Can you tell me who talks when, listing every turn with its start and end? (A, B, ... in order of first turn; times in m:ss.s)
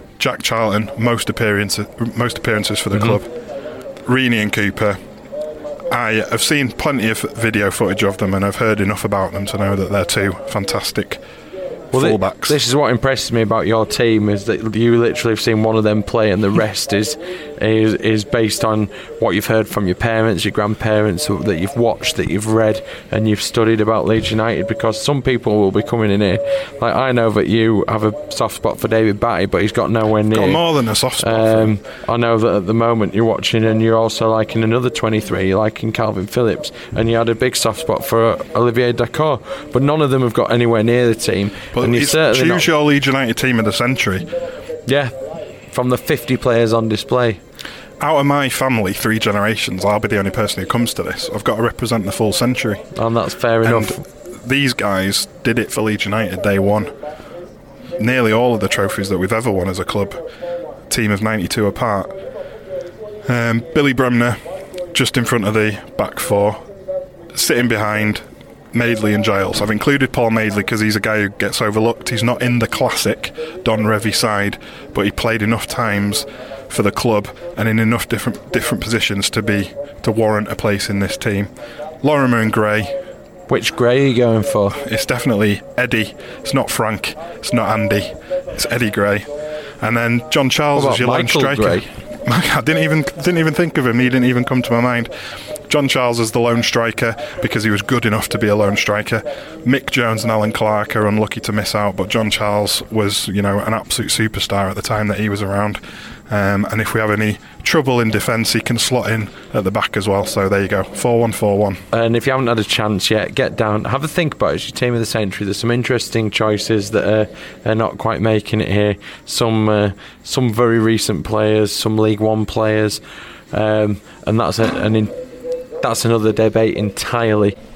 0:00.2-0:03.3 A
0:04.0-0:05.0 A
0:05.9-0:11.2 A
0:11.9-0:12.6 A
0:11.9-0:30.6 B
0:30.3-0:31.7 A
0:31.2-0:42.7 B
0:41.7-0:44.3 A
0:44.8-0:45.1 B
0:45.7-0:47.4 B
0:48.0-0:52.8 A
0:52.9-0:54.0 B
0:53.6-0:56.9 A
0:58.0-1:00.2 A
1:00.9-1:02.1 A
1:03.2-1:04.4 A
1:04.9-1:06.6 A
1:07.3-1:21.5 A
1:22.0-1:22.9 A
1:23.5-1:24.8 B
1:24.8-1:29.3 A
1:29.8-1:35.1 A
1:30.7-1:31.9 B
1:35.7-1:51.8 A
1:51.9-2:03.0 B
2:03.5-2:05.1 B
2:05.8-2:07.6 B